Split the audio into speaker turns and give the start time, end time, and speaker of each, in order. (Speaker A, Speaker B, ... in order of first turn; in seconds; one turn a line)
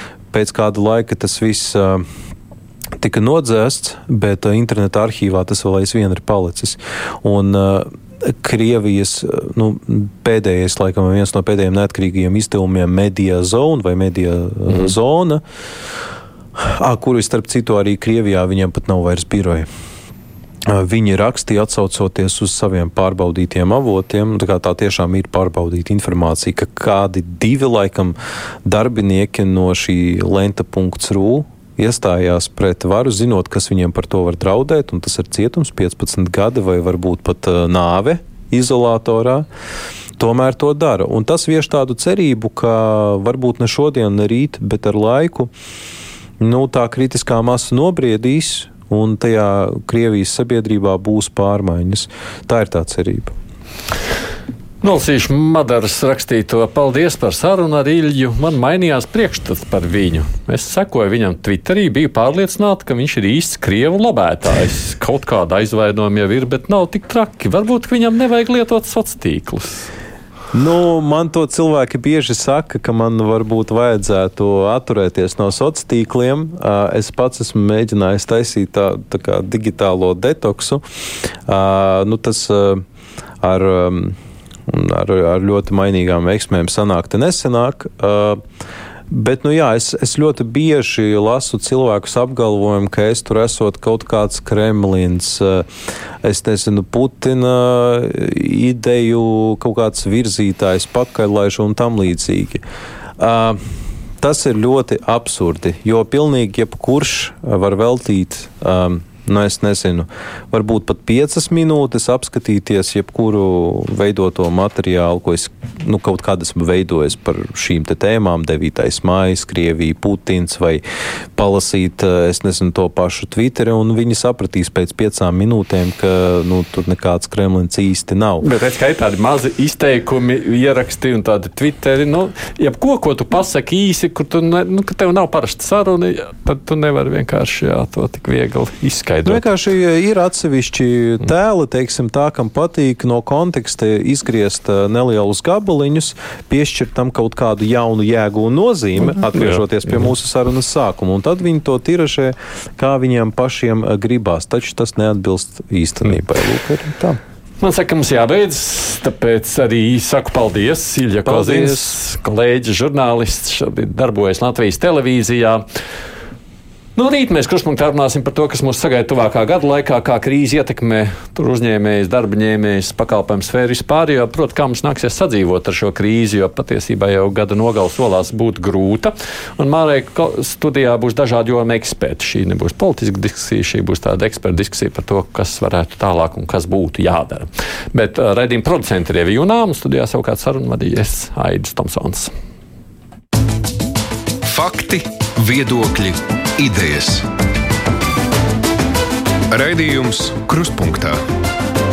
Speaker A: 0.3-2.0
Speaker A: 3.0-15.4
Speaker A: 16.6-19.7
Speaker A: 20.7-39.5
Speaker A: 40.2-45.5
Speaker A: 46.4-53.3
Speaker B: 54.8-69.9
Speaker A: 70.5-80.8
Speaker A: 81.5-82.8
Speaker A: 83.4-88.4
Speaker A: 89.1-95.7
Speaker A: 96.2-102.6
Speaker A: 103.2-103.6
Speaker A: 104.2-120.8
Speaker A: 121.4-128.4
Speaker B: 128.4-139.4
Speaker A: 139.2-157.2
Speaker B: 157.6-165.6
Speaker A: 161.2-161.9
Speaker B: 166.9-192.3
Speaker C: 194.4-197.3
Speaker C: 199.5-201.2